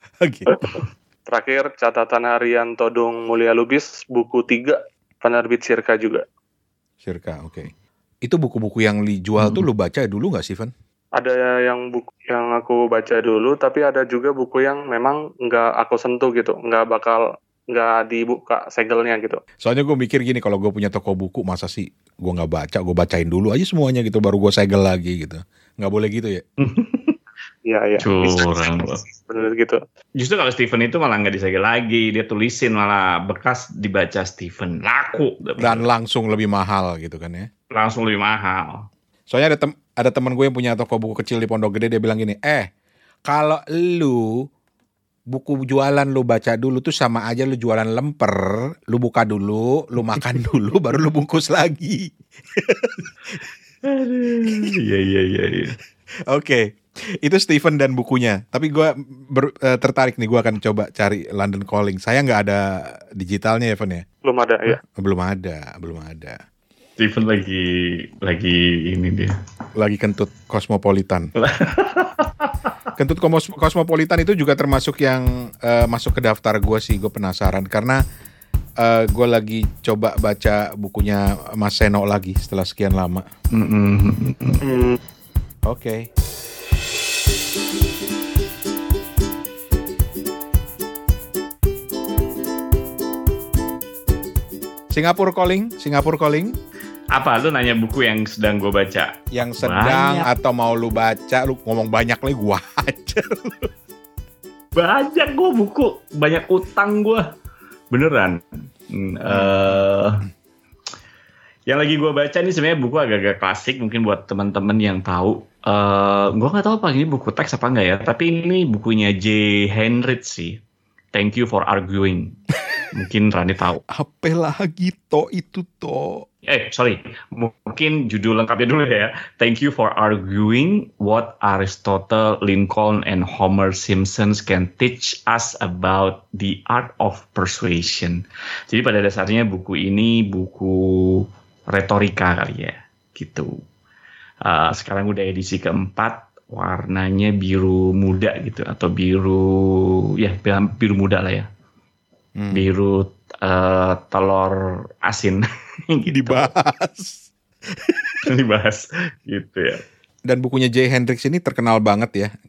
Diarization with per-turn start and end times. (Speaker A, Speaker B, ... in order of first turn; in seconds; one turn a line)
Speaker A: 0.2-0.5
Speaker B: 0.5-6.2
Speaker A: 7.0-7.7
Speaker A: 8.2-10.7
Speaker C: 9.4-9.7
Speaker B: 11.2-19.4
Speaker A: 19.6-26.4
Speaker C: 26.6-27.2
Speaker B: 27.7-29.8
Speaker C: 28.0-29.0
Speaker C: 30.2-35.9
Speaker A: 35.6-37.5
Speaker C: 37.7-38.9
Speaker A: 39.3-42.7
Speaker A: 43.3-44.4
Speaker A: 45.3-53.1
Speaker C: 53.8-55.8
Speaker A: 56.3-56.6
Speaker A: 57.2-62.6
Speaker A: 63.2-64.0
Speaker B: 64.2-64.8
Speaker A: 64.8-66.4
Speaker C: 67.0-69.3
Speaker A: 69.8-71.3
Speaker C: 71.4-72.7
Speaker A: 73.0-78.0
Speaker A: 78.8-83.2
Speaker C: 83.5-84.6
Speaker B: 84.6-85.0
Speaker A: 85.7-86.1
Speaker A: 94.9-96.5
Speaker C: 97.1-100.3
Speaker A: 99.3-103.7
Speaker C: 104.7-107.2
Speaker C: 107.9-110.2
Speaker A: 109.3-109.8
Speaker C: 111.7-120.6
Speaker C: 121.1-122.3
Speaker C: 122.9-123.8
Speaker A: 123.9-126.2
Speaker C: 126.4-143.6
Speaker C: 144.4-151.5
Speaker A: 152.4-152.7
Speaker C: 152.5-156.5
Speaker A: 156.1-158.2
Speaker C: 158.3-159.8
Speaker A: 160.3-162.3